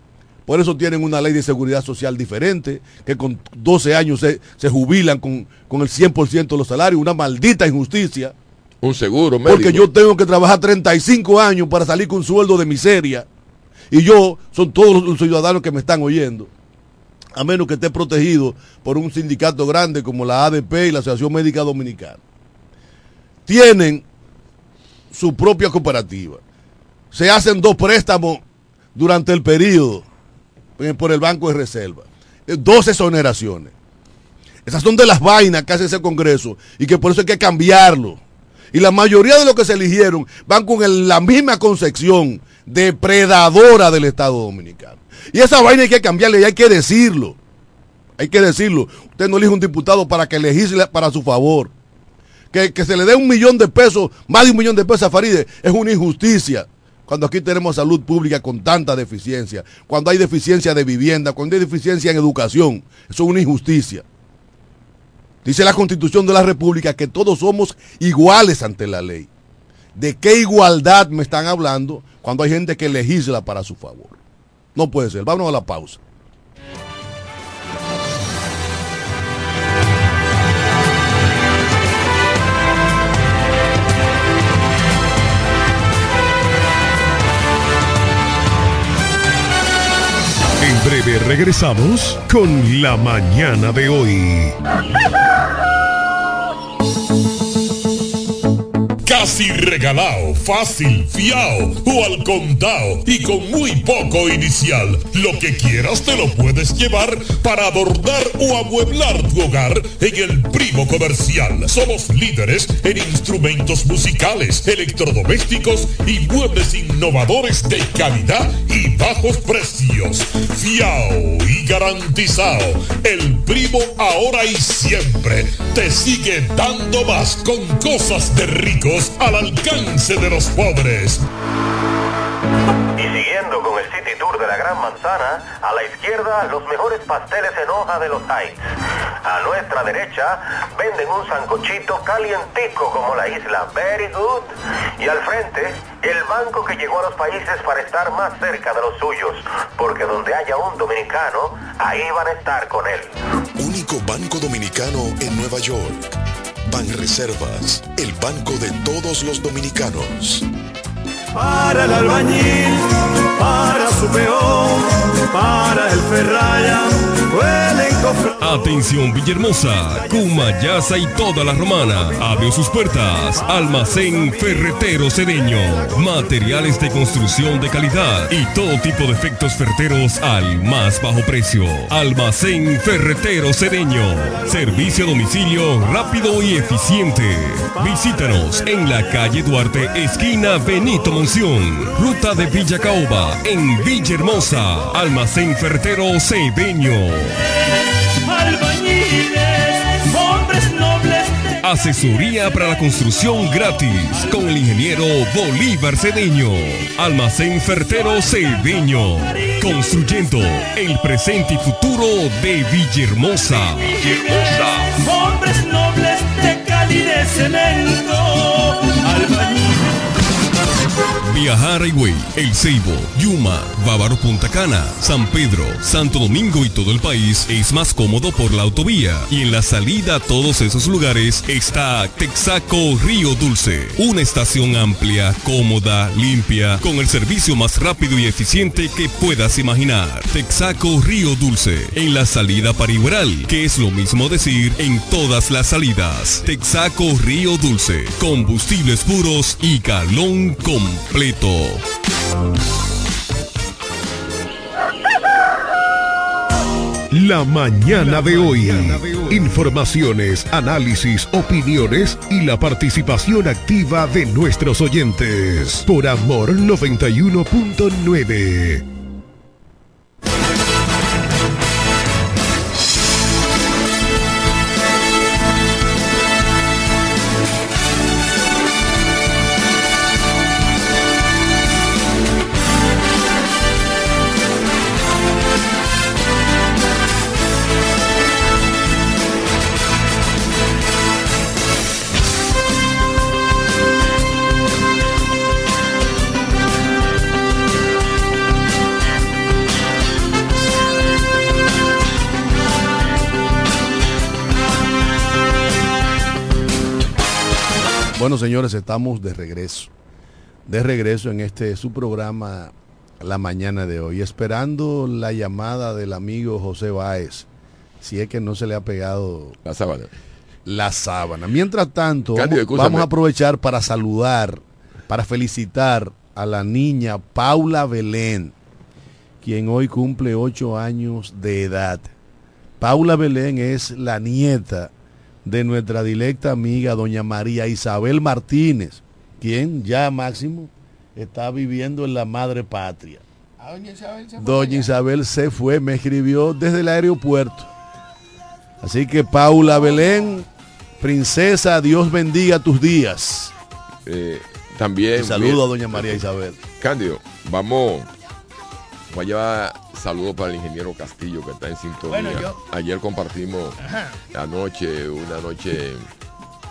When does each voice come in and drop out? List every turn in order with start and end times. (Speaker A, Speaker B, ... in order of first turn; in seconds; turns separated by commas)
Speaker A: 0.5-8.3, Speaker B: 8.8-9.9, Speaker A: 9.4-13.3, Speaker A: 13.9-16.5, Speaker A: 17.3-22.2, Speaker A: 23.4-24.0, Speaker A: 25.1-26.4, Speaker A: 27.1-28.4, Speaker A: 28.9-30.1, Speaker A: 30.8-33.7, Speaker A: 34.6-38.2, Speaker A: 38.7-47.4, Speaker A: 48.2-51.7, Speaker A: 52.5-64.0, Speaker A: 65.4-69.3, Speaker A: 69.9-74.2, Speaker A: 74.7-76.0, Speaker C: 90.6-94.5, Speaker D: 99.0-131.2, Speaker E: 133.0-138.6, Speaker E: 139.2-153.1, Speaker F: 153.6-156.1, Speaker F: 156.7-160.4, Speaker G: 168.4-197.4, Speaker H: 198.2-201.5, Speaker G: 201.6-214.9, Speaker H: 209.4-210.0, Speaker H: 213.9-219.8, Speaker G: 221.2-251.8, Speaker C: 257.1-268.8, Speaker A: 308.1-309.9, Speaker A: 310.6-317.4, Speaker A: 318.0-319.6, Speaker B: 319.6-320.1, Speaker A: 320.6-328.5, Speaker B: 322.3-323.1, Speaker A: 329.4-332.1, Speaker A: 332.8-334.9, Speaker A: 335.4-343.2, Speaker I: 343.6-344.9, Speaker A: 344.4-347.7, Speaker A: 348.8-350.5, Speaker A: 351.0-353.5, Speaker B: 354.1-356.2, Speaker A: 355.1-356.6, Speaker B: 356.8-358.1, Speaker B: 359.1-363.8, Speaker I: 362.1-362.6, Speaker I: 363.8-364.2, Speaker B: 364.3-366.0